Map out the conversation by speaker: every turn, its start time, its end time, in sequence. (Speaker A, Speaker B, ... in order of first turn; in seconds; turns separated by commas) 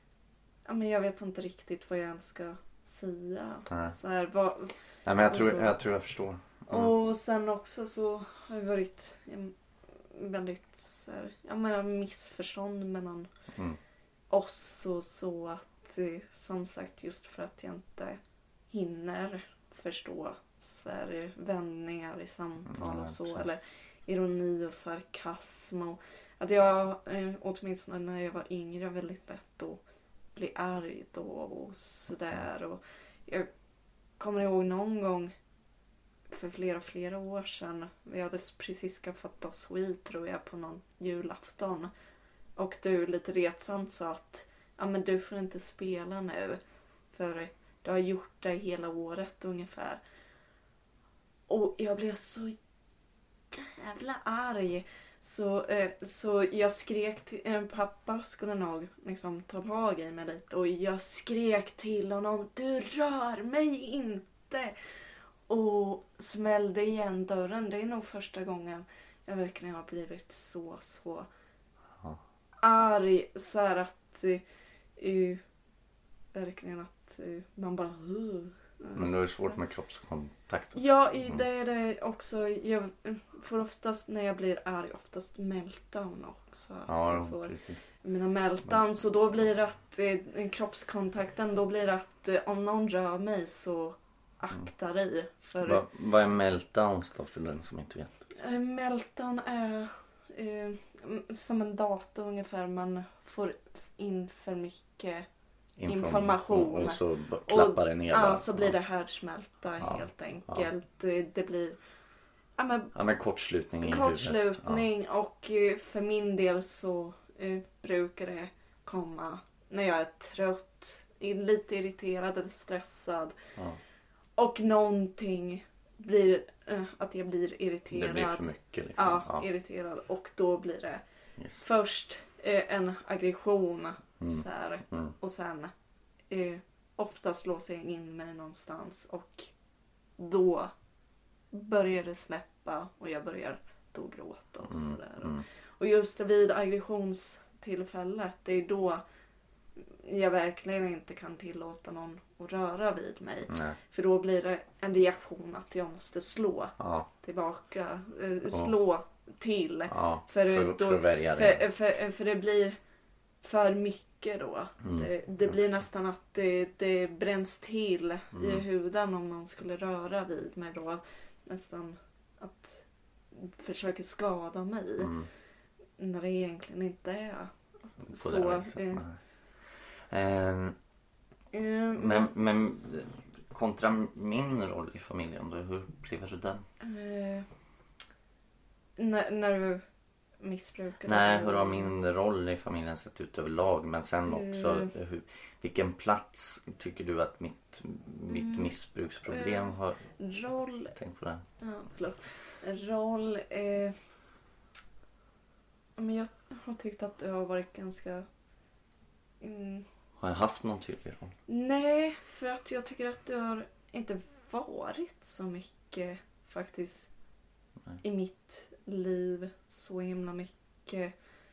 Speaker A: 0.7-5.8, Speaker B: 3.7-3.9, Speaker B: 5.0-6.9, Speaker A: 6.7-13.3, Speaker B: 13.5-13.8, Speaker A: 14.3-18.2, Speaker A: 18.7-29.8, Speaker B: 22.7-23.5, Speaker A: 30.3-33.5, Speaker A: 34.2-35.3, Speaker A: 36.3-41.9, Speaker A: 42.5-50.0, Speaker A: 51.5-52.5, Speaker A: 53.5-64.8, Speaker A: 65.5-71.3, Speaker A: 72.6-74.4, Speaker A: 75.0-75.4, Speaker A: 76.3-79.6, Speaker B: 78.9-81.4, Speaker A: 80.7-95.9, Speaker B: 86.9-87.9, Speaker B: 95.6-98.1, Speaker A: 98.4-105.3, Speaker B: 105.8-108.8, Speaker A: 105.9-111.8, Speaker B: 109.8-110.7, Speaker A: 112.6-112.9, Speaker B: 112.9-114.9, Speaker A: 113.8-123.4, Speaker A: 124.4-131.0, Speaker B: 127.9-129.4, Speaker B: 131.4-131.6, Speaker A: 131.6-135.7, Speaker B: 134.2-135.1, Speaker A: 136.3-139.5, Speaker A: 140.2-140.7, Speaker A: 141.5-149.0, Speaker B: 144.6-145.4, Speaker A: 149.8-162.8, Speaker B: 153.5-153.8, Speaker B: 156.8-157.1, Speaker B: 159.9-161.6, Speaker A: 163.4-175.1, Speaker B: 164.8-165.7, Speaker B: 168.3-168.6, Speaker B: 175.0-175.3, Speaker A: 176.0-179.0, Speaker B: 178.0-180.8, Speaker A: 181.5-182.3, Speaker B: 181.9-186.6, Speaker A: 186.8-187.5, Speaker A: 189.0-189.8, Speaker A: 190.4-191.9, Speaker B: 191.1-200.1, Speaker A: 194.3-194.9, Speaker A: 198.3-198.7, Speaker A: 199.3-200.9, Speaker B: 200.9-201.4, Speaker A: 201.6-204.0, Speaker A: 206.0-208.3, Speaker A: 209.4-209.9, Speaker B: 210.2-211.3, Speaker A: 211.5-217.1, Speaker A: 218.0-221.1